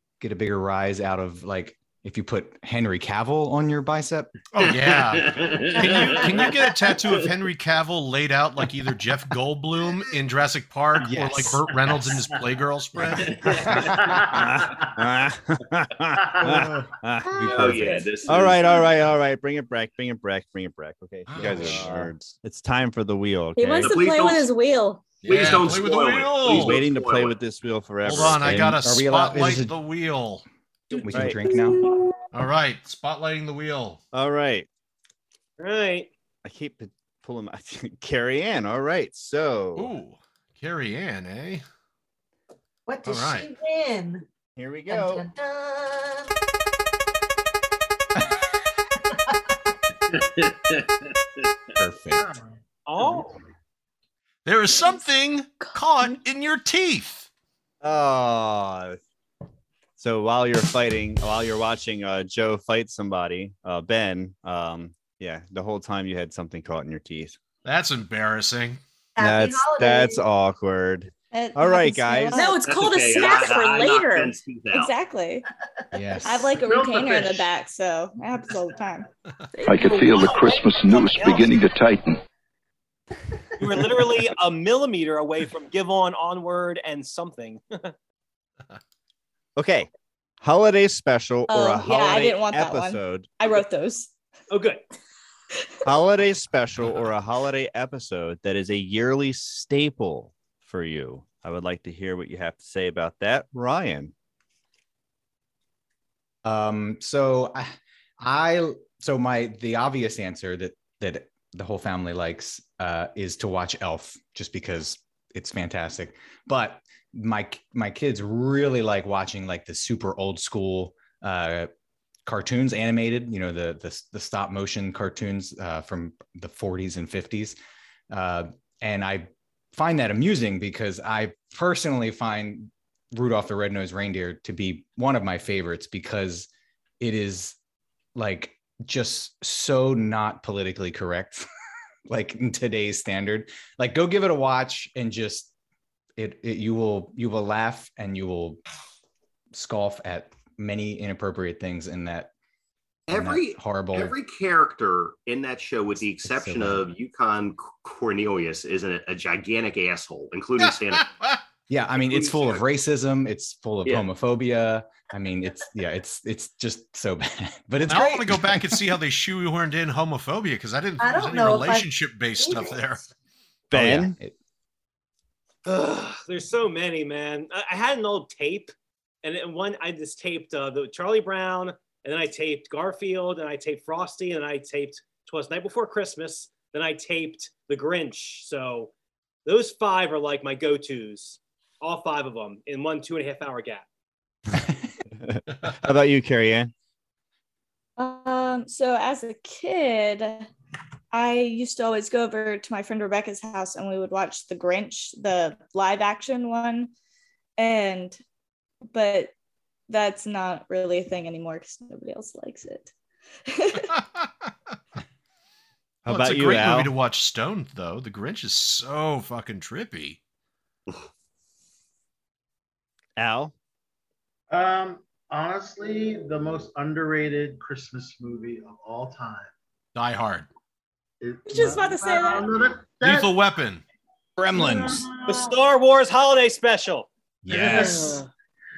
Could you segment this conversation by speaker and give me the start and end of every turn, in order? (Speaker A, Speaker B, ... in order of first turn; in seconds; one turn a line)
Speaker A: 0.2-4.3
Speaker B: 4.5-13.4
Speaker C: 4.7-7.1
Speaker A: 11.0-11.8
Speaker A: 13.0-14.0
Speaker C: 13.3-13.9
Speaker D: 14.0-14.8
Speaker E: 14.2-24.0
Speaker A: 17.3-18.1
Speaker C: 17.4-18.8
Speaker A: 21.3-22.1
Speaker F: 23.6-25.2
Speaker C: 23.8-24.5
Speaker B: 25.2-26.8
Speaker C: 25.2-27.4
Speaker E: 26.4-28.8
Speaker B: 28.0-30.4
Speaker A: 28.4-29.7
Speaker A: 31.0-31.8
Speaker E: 31.1-31.4
Speaker B: 32.3-34.0
Speaker E: 34.1-34.7
Speaker G: 35.6-36.1
Speaker E: 36.4-39.9
Speaker B: 39.7-41.6
Speaker H: 42.9-44.2
Speaker B: 43.0-43.5
Speaker E: 44.5-45.3
Speaker H: 44.9-46.3
Speaker A: 51.8-52.3
Speaker D: 52.2-52.5
Speaker G: 52.9-53.4
Speaker B: 54.4-57.3
Speaker F: 55.6-56.1
Speaker E: 57.8-59.0
Speaker E: 60.0-67.4
Speaker B: 67.6-68.8
Speaker H: 69.2-70.2
Speaker E: 69.2-72.4
Speaker I: 71.3-72.6
Speaker F: 72.3-74.3
Speaker C: 72.6-74.9
Speaker I: 74.7-75.4
Speaker A: 75.9-76.5
Speaker I: 76.2-79.1
Speaker D: 76.5-77.5
Speaker F: 79.5-80.0
Speaker J: 79.6-82.2
Speaker G: 79.9-81.6
Speaker G: 83.6-87.9
Speaker E: 89.5-89.9
Speaker E: 90.4-93.3
Speaker I: 91.5-94.1
Speaker G: 94.5-94.8
Speaker E: 95.8-104.1
Speaker A: 106.4-121.7
Speaker A: 122.2-127.6
Speaker A: 128.1-136.5
Speaker A: 137.0-137.6
Speaker A: 138.1-141.4
Speaker A: 142.1-145.5
Speaker A: 146.2-148.6
Speaker A: 149.5-152.3
Speaker C: 153.1-161.1
Speaker A: 153.1-154.1
Speaker A: 156.2-156.8
Speaker B: 160.6-161.4
Speaker A: 161.7-168.9
Speaker C: 162.1-162.6
Speaker B: 167.8-173.0
Speaker H: 171.0-172.9
Speaker E: 173.7-174.2
Speaker A: 173.7-174.3
Speaker G: 175.7-178.7
Speaker G: 179.2-188.9
Speaker G: 189.4-193.8
Speaker E: 195.2-196.7
Speaker I: 198.0-200.5
Speaker I: 201.1-206.9
Speaker I: 207.6-208.2
Speaker I: 208.9-209.3
Speaker I: 209.9-212.9
Speaker I: 213.5-213.9
Speaker B: 213.9-214.3
Speaker E: 216.0-216.9
Speaker B: 216.1-220.2
Speaker E: 223.2-223.5
Speaker D: 224.5-229.5
Speaker B: 229.9-230.5
Speaker D: 231.2-233.4
Speaker F: 231.5-232.5
Speaker B: 233.0-233.8
Speaker A: 234.4-235.1
Speaker D: 234.5-235.6
Speaker G: 235.3-237.1
Speaker A: 237.4-238.2
Speaker D: 237.5-238.2
Speaker G: 238.0-238.3